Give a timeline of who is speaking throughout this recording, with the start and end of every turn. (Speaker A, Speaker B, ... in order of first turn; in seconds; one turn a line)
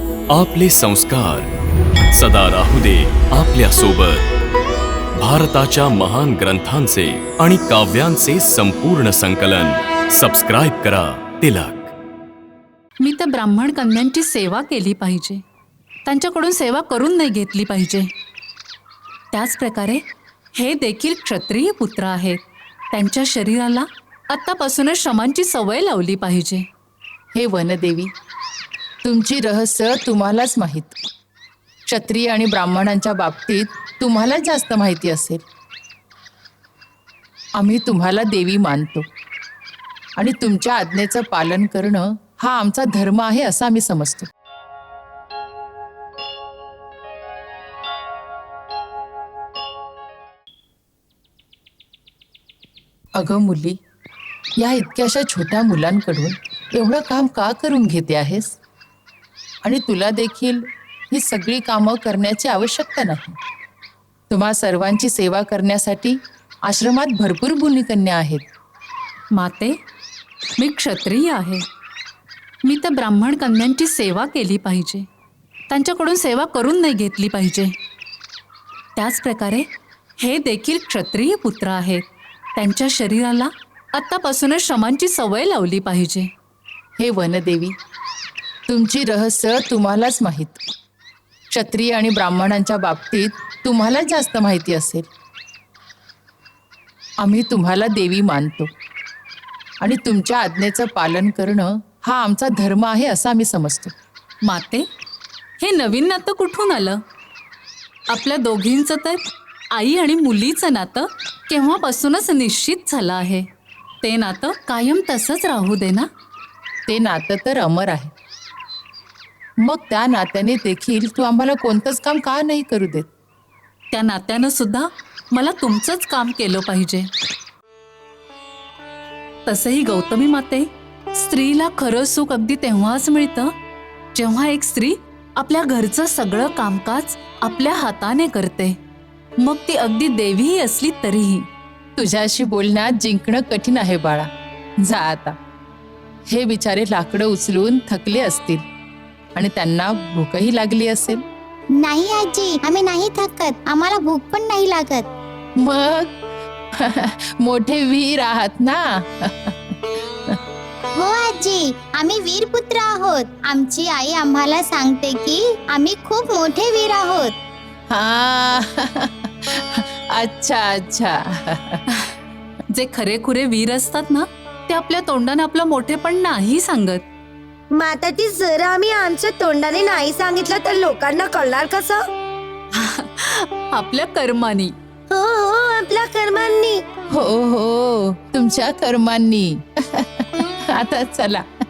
Speaker A: 0.3-1.5
Speaker A: 2.1-4.3
Speaker A: 5.2-11.9
Speaker B: 13.0-15.4
Speaker B: 16.1-18.1
Speaker B: 19.3-20.0
Speaker B: 20.6-22.4
Speaker B: 22.9-26.7
Speaker C: 27.3-28.1
Speaker C: 29.0-31.0
Speaker C: 31.9-35.4
Speaker C: 37.6-39.1
Speaker C: 40.2-44.3
Speaker C: 53.2-53.8
Speaker C: 54.6-58.6
Speaker C: 59.6-63.4
Speaker C: 64.3-68.5
Speaker B: 69.3-69.8
Speaker B: 70.6-71.6
Speaker B: 72.7-75.1
Speaker B: 75.7-77.7
Speaker B: 79.0-79.7
Speaker B: 80.2-82.0
Speaker B: 82.6-86.3
Speaker C: 87.0-87.8
Speaker C: 88.7-90.6
Speaker C: 91.5-95.1
Speaker C: 97.2-98.7
Speaker C: 99.8-103.9
Speaker B: 104.5-104.9
Speaker B: 105.6-107.0
Speaker B: 108.1-113.5
Speaker B: 114.0-116.1
Speaker C: 116.9-118.1
Speaker C: 119.6-123.1
Speaker B: 123.9-127.1
Speaker B: 129.4-133.5
Speaker B: 134.2-138.8
Speaker B: 139.4-141.5
Speaker C: 142.0-144.3
Speaker C: 144.8-145.4
Speaker C: 146.3-148.6
Speaker C: 149.3-151.2
Speaker D: 151.7-155.1
Speaker C: 155.6-156.1
Speaker C: 156.8-159.8
Speaker D: 160.9-167.3
Speaker C: 167.9-171.8
Speaker B: 172.7-177.0
Speaker E: 177.7-182.1
Speaker B: 182.7-184.8
Speaker E: 185.1-186.8
Speaker C: 187.1-191.5